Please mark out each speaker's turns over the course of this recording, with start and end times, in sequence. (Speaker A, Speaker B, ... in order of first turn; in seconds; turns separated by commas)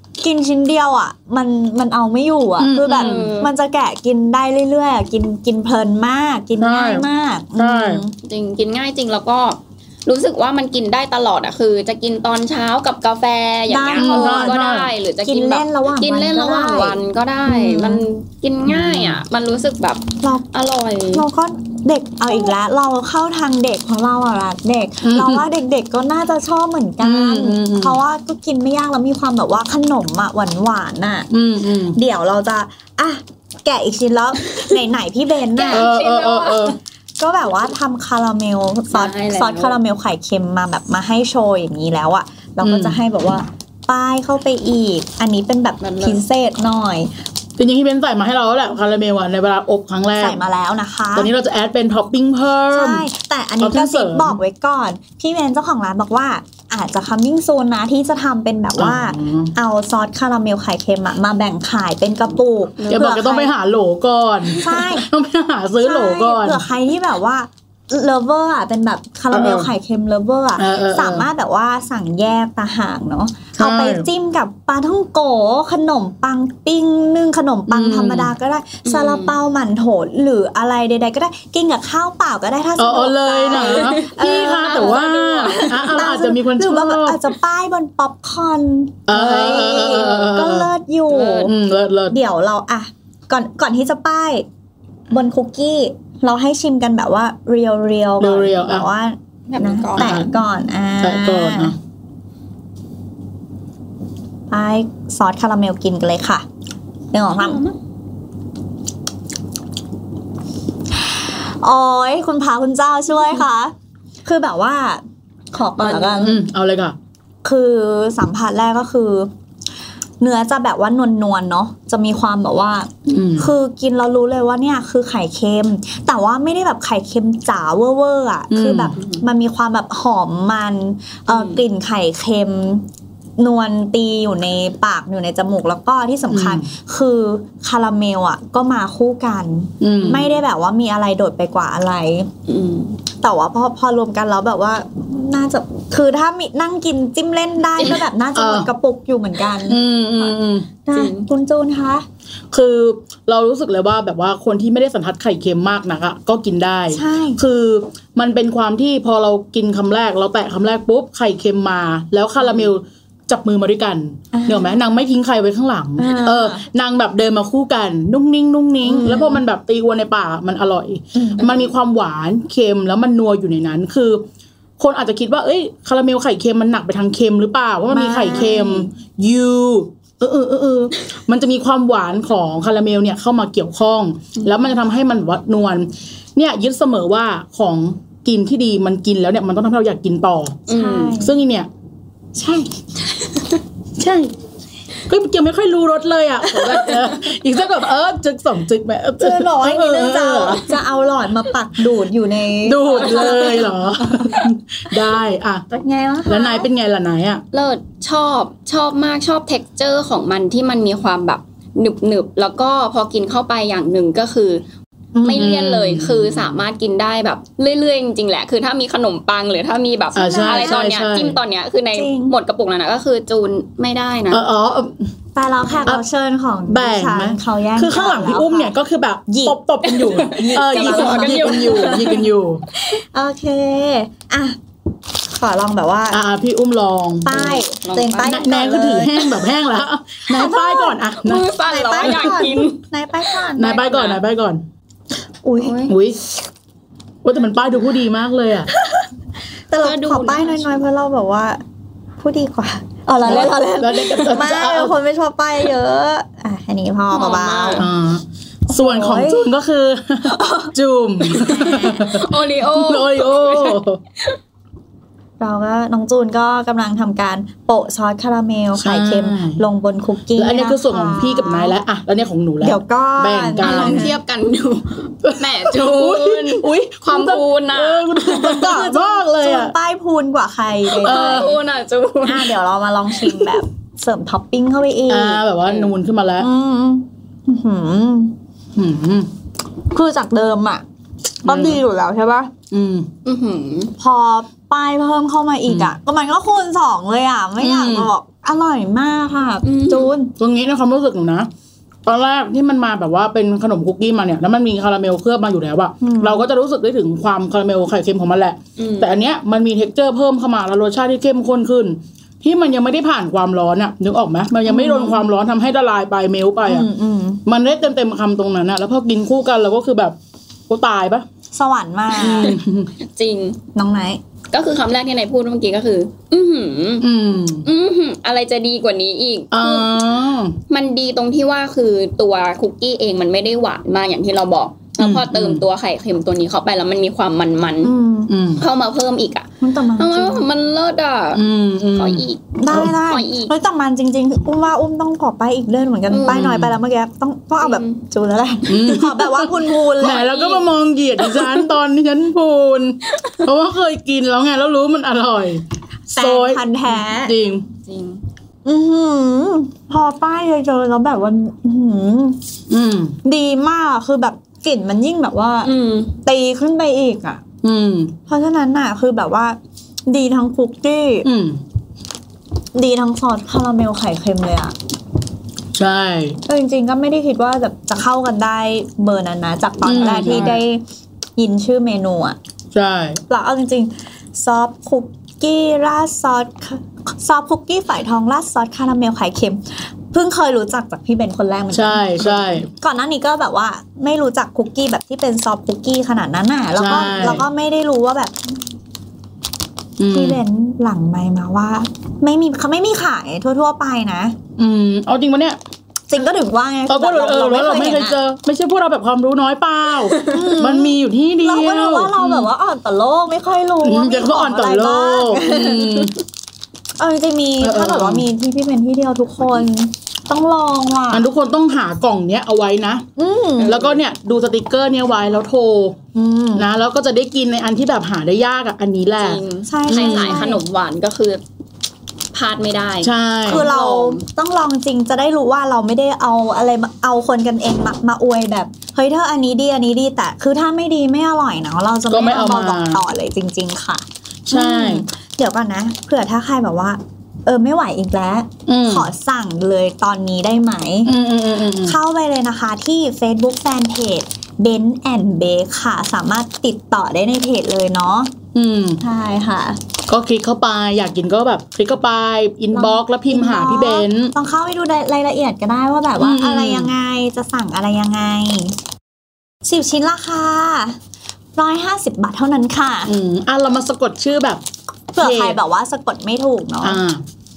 Speaker A: 0.2-8.2, Speaker B: 2.6-3.3, Speaker C: 2.9-3.5, Speaker B: 6.6-8.0, Speaker C: 8.2-21.2, Speaker A: 13.7-14.6, Speaker B: 14.0-14.9, Speaker A: 15.2-18.0, Speaker B: 18.6-19.2, Speaker A: 20.2-20.5, Speaker A: 21.1-31.3, Speaker B: 25.0-25.4, Speaker B: 27.0-28.0, Speaker B: 31.3-32.0, Speaker A: 31.9-35.9, Speaker C: 35.5-36.8, Speaker B: 35.7-36.8, Speaker A: 37.2-47.1, Speaker C: 38.9-39.8, Speaker B: 42.6-43.0, Speaker C: 45.8-46.2, Speaker B: 47.6-50.4, Speaker A: 50.2-51.3, Speaker B: 51.1-53.1, Speaker A: 52.7-63.5, Speaker B: 53.6-54.4, Speaker B: 58.8-59.5, Speaker C: 62.8-63.2, Speaker B: 62.9-66.6, Speaker C: 64.5-64.8, Speaker A: 64.6-65.1, Speaker A: 65.8-91.5, Speaker B: 69.3-69.7, Speaker B: 70.5-71.3, Speaker B: 73.5-74.1, Speaker B: 77.7-78.3, Speaker C: 78.8-79.4, Speaker B: 82.8-87.2, Speaker C: 83.5-86.1, Speaker B: 89.1-90.7, Speaker C: 89.7-90.4, Speaker C: 91.1-91.5, Speaker B: 91.4-92.2, Speaker A: 92.1-94.5, Speaker A: 95.1-101.7, Speaker B: 98.2-98.9, Speaker C: 99.5-100.3, Speaker B: 100.0-100.3, Speaker B: 101.0-101.8, Speaker A: 104.5-106.5, Speaker A: 107.1-107.6, Speaker C: 107.3-107.8, Speaker A: 111.0-115.0, Speaker A: 115.5-116.4, Speaker C: 115.8-116.3, Speaker B: 116.2-117.0, Speaker A: 117.4-119.3, Speaker A: 120.2-132.9, Speaker B: 123.1-123.5, Speaker B: 128.5-128.9, Speaker C: 129.0-129.2, Speaker C: 131.3-131.6, Speaker A: 133.4-142.3, Speaker B: 136.3-136.7, Speaker B: 139.8-140.3, Speaker C: 140.1-140.4, Speaker C: 142.5-143.0, Speaker A: 143.2-152.1, Speaker B: 147.8-148.7, Speaker B: 149.7-150.7, Speaker C: 150.9-151.3, Speaker B: 152.5-174.2, Speaker A: 156.9-157.4, Speaker A: 164.3-164.8, Speaker A: 166.0-166.7, Speaker A: 168.8-169.4, Speaker A: 171.1-171.4, Speaker C: 171.4-171.7, Speaker B: 174.8-190.6, Speaker A: 177.9-178.9, Speaker C: 190.7-191.2, Speaker A: 190.7-191.4, Speaker B: 191.2-191.7, Speaker A: 192.4-192.7, Speaker B: 194.0-194.3, Speaker B: 195.1-200.6, Speaker C: 196.5-196.9, Speaker A: 199.2-204.4, Speaker B: 202.6-205.6, Speaker C: 202.9-203.7, Speaker A: 205.7-206.7, Speaker B: 206.2-207.4, Speaker C: 207.5-214.6, Speaker A: 215.1-215.5, Speaker C: 215.2-224.4, Speaker B: 215.3-216.6, Speaker B: 220.1-221.4, Speaker A: 220.2-220.9, Speaker A: 221.9-222.4, Speaker B: 224.3-225.1, Speaker A: 225.3-228.8, Speaker B: 226.7-232.6, Speaker A: 229.3-229.6, Speaker C: 229.9-232.3, Speaker A: 230.1-232.2, Speaker A: 232.8-234.6, Speaker A: 235.3-236.2, Speaker B: 236.1-237.6, Speaker A: 237.2-239.5, Speaker C: 237.3-239.2, Speaker B: 238.2-241.4, Speaker A: 240.3-241.0, Speaker C: 241.1-242.8, Speaker A: 241.6-244.0, Speaker B: 242.0-242.4, Speaker B: 243.6-244.6, Speaker C: 243.9-244.2, Speaker A: 245.4-245.9, Speaker C: 245.6-245.9, Speaker B: 245.9-246.2, Speaker B: 247.2-248.7, Speaker A: 248.7-249.1, Speaker A: 249.7-251.6, Speaker C: 249.8-250.8, Speaker A: 252.2-257.9, Speaker B: 253.2-254.9, Speaker C: 253.2-253.6, Speaker C: 257.1-257.9, Speaker B: 257.7-264.0, Speaker A: 258.7-259.5, Speaker A: 260.2-260.7, Speaker C: 261.3-264.4, Speaker A: 261.4-261.9, Speaker A: 265.4-271.8, Speaker B: 268.8-269.6, Speaker B: 270.4-274.1, Speaker A: 272.6-274.1, Speaker C: 273.6-278.8, Speaker B: 275.2-279.7, Speaker A: 278.4-281.5, Speaker B: 280.9-281.6, Speaker C: 280.9-282.5, Speaker A: 282.2-285.4, Speaker B: 285.1-286.5, Speaker C: 285.6-285.9, Speaker A: 286.4-288.4, Speaker B: 288.8-289.3, Speaker A: 289.9-290.9, Speaker A: 291.4-292.5, Speaker B: 291.4-291.8, Speaker B: 292.7-293.1, Speaker C: 293.2-293.9, Speaker A: 294.0-300.4, Speaker B: 295.7-295.9, Speaker B: 297.6-298.1, Speaker C: 299.6-300.1, Speaker B: 300.4-301.5, Speaker B: 302.1-316.9, Speaker A: 306.0-306.5, Speaker C: 308.8-309.2, Speaker A: 314.7-315.3, Speaker A: 316.6-317.4, Speaker B: 317.4-320.2, Speaker B: 320.7-321.2, Speaker A: 321.5-322.6, Speaker B: 322.1-322.9, Speaker C: 322.1-323.6, Speaker A: 323.7-324.2, Speaker C: 324.5-327.1, Speaker B: 327.0-327.7, Speaker C: 327.6-330.1, Speaker B: 329.5-330.6, Speaker C: 330.7-337.9, Speaker B: 335.0-335.6, Speaker A: 337.8-338.4, Speaker B: 338.3-338.6, Speaker C: 338.6-341.4, Speaker A: 339.6-340.5, Speaker B: 341.3-342.9, Speaker C: 341.9-343.5, Speaker A: 342.6-350.2, Speaker C: 346.1-346.5, Speaker B: 346.2-346.8, Speaker C: 347.6-348.0, Speaker B: 348.7-357.6, Speaker C: 350.0-351.7, Speaker A: 356.1-357.4, Speaker C: 357.9-358.2, Speaker A: 358.6-362.4, Speaker B: 362.7-363.1, Speaker A: 363.2-367.4, Speaker C: 365.6-366.1, Speaker B: 367.6-368.1, Speaker A: 368.3-371.3, Speaker B: 371.2-371.6, Speaker A: 372.7-374.7, Speaker B: 375.8-376.4, Speaker A: 376.4-380.8, Speaker B: 379.8-380.6, Speaker A: 381.4-382.4, Speaker B: 382.7-383.2, Speaker A: 383.3-398.6, Speaker B: 391.7-392.7, Speaker B: 396.8-397.4, Speaker B: 400.0-400.4, Speaker A: 400.1-404.4, Speaker B: 404.6-405.6, Speaker A: 406.1-408.2, Speaker B: 406.9-412.5, Speaker A: 410.2-416.1, Speaker B: 413.8-416.1, Speaker A: 417.0-421.3, Speaker B: 417.6-418.3, Speaker B: 421.1-423.1, Speaker A: 423.2-423.7, Speaker C: 423.6-424.0, Speaker B: 423.6-426.0, Speaker A: 426.1-426.7, Speaker B: 426.6-430.5, Speaker C: 429.2-431.4, Speaker A: 429.6-430.6, Speaker C: 432.3-434.2, Speaker B: 433.0-433.7, Speaker A: 433.5-451.1, Speaker B: 442.1-443.0, Speaker B: 444.5-445.1, Speaker B: 448.7-449.1, Speaker B: 451.1-452.0, Speaker A: 451.8-458.3, Speaker B: 458.5-459.0, Speaker A: 459.0-459.8, Speaker B: 460.1-464.3, Speaker A: 462.7-468.8, Speaker B: 466.2-466.9, Speaker A: 469.6-471.0, Speaker A: 471.6-473.1, Speaker B: 473.1-474.6, Speaker A: 475.1-477.0, Speaker B: 475.2-475.6, Speaker B: 476.8-477.2